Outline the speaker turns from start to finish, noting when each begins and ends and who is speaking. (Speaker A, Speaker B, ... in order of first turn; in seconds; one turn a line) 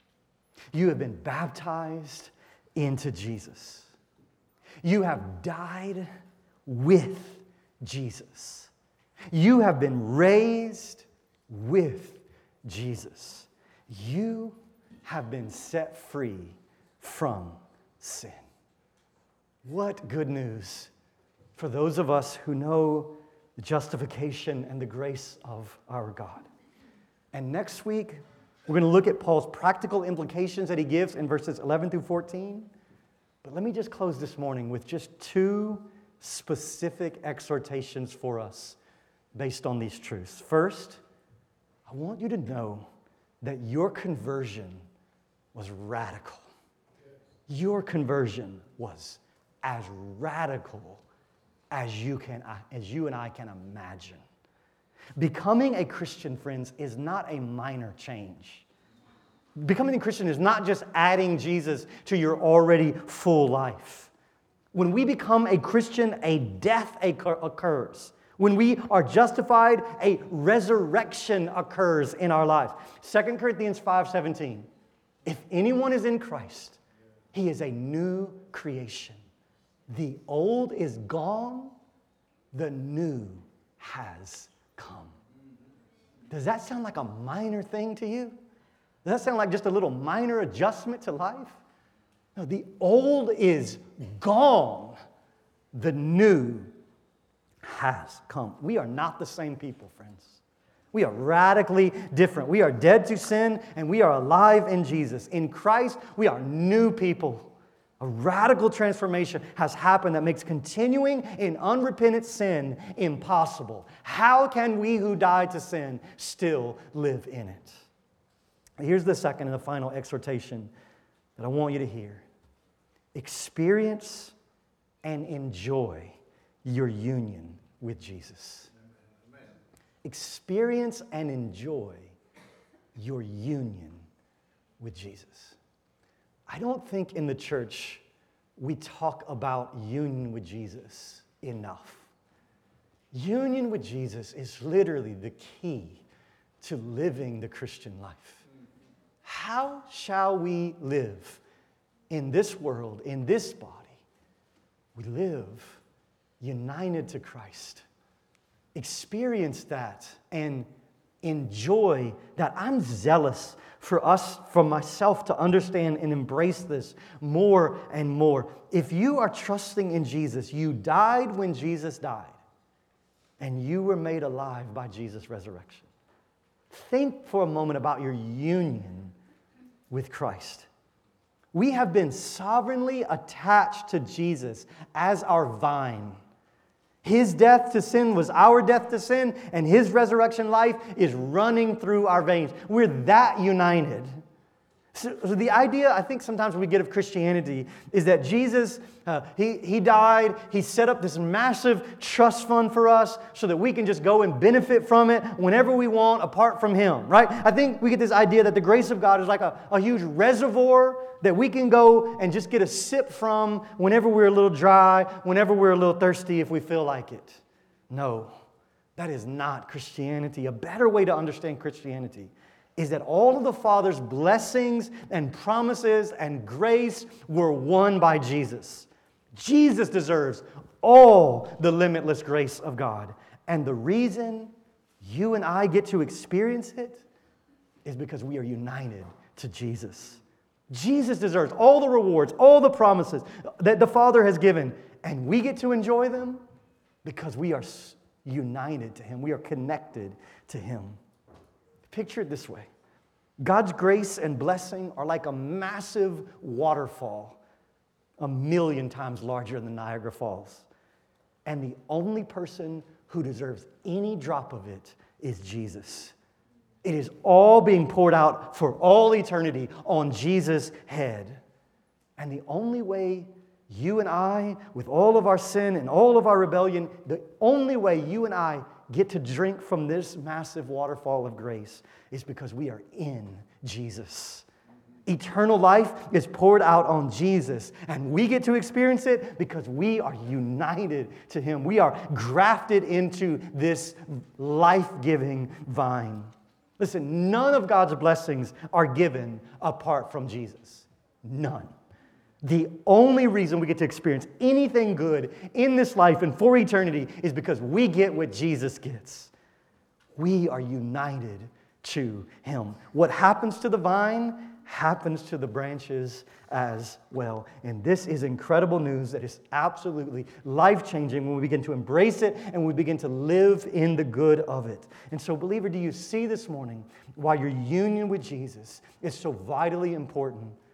Speaker A: 0.7-3.9
Speaker A: 4.8-6.1
Speaker A: 6.7-8.7
Speaker A: 9.3-18.4
Speaker A: 19.6-20.9
Speaker A: 21.6-26.4
Speaker A: 27.3-32.7
Speaker A: 33.4-38.8
Speaker A: 39.3-41.0
Speaker A: 41.9-42.9
Speaker A: 43.4-44.8
Speaker A: 45.5-46.5
Speaker A: 47.5-51.0
Speaker A: 51.7-54.2
Speaker A: 55.2-58.6
Speaker A: 59.6-64.1
Speaker A: 64.7-74.7
Speaker A: 75.2-76.8
Speaker A: 77.3-79.2
Speaker A: 79.9-81.8
Speaker A: 82.5-85.1
Speaker A: 86.3-88.4
Speaker A: 89.0-91.6
Speaker A: 92.3-95.0
Speaker A: 95.7-96.7
Speaker A: 97.6-100.4
Speaker A: 100.9-117.8
Speaker A: 118.8-120.7
Speaker A: 121.4-122.2
Speaker A: 123.1-124.3
Speaker A: 125.0-128.7
Speaker A: 130.0-132.1
Speaker A: 132.9-134.0
Speaker A: 134.8-135.6
Speaker A: 136.5-138.0
Speaker A: 138.6-142.1
Speaker A: 143.1-146.0
Speaker A: 146.6-148.4
Speaker A: 149.2-151.4
Speaker A: 152.1-154.0
Speaker A: 154.9-155.8
Speaker A: 156.4-157.8
Speaker A: 158.7-160.7
Speaker A: 161.2-172.4
Speaker A: 173.4-175.9
Speaker A: 176.7-179.1
Speaker A: 179.9-180.7
Speaker A: 181.5-186.2
Speaker A: 187.0-194.1
Speaker A: 194.9-218.3
Speaker A: 219.0-237.0
Speaker A: 237.8-246.4
Speaker A: 247.0-251.0
Speaker A: 251.9-252.7
Speaker A: 253.4-257.4
Speaker A: 258.2-260.6
Speaker A: 261.4-266.1
Speaker A: 266.8-271.4
Speaker A: 272.2-284.4
Speaker A: 285.1-301.7
Speaker A: 302.4-309.3
Speaker A: 310.1-330.6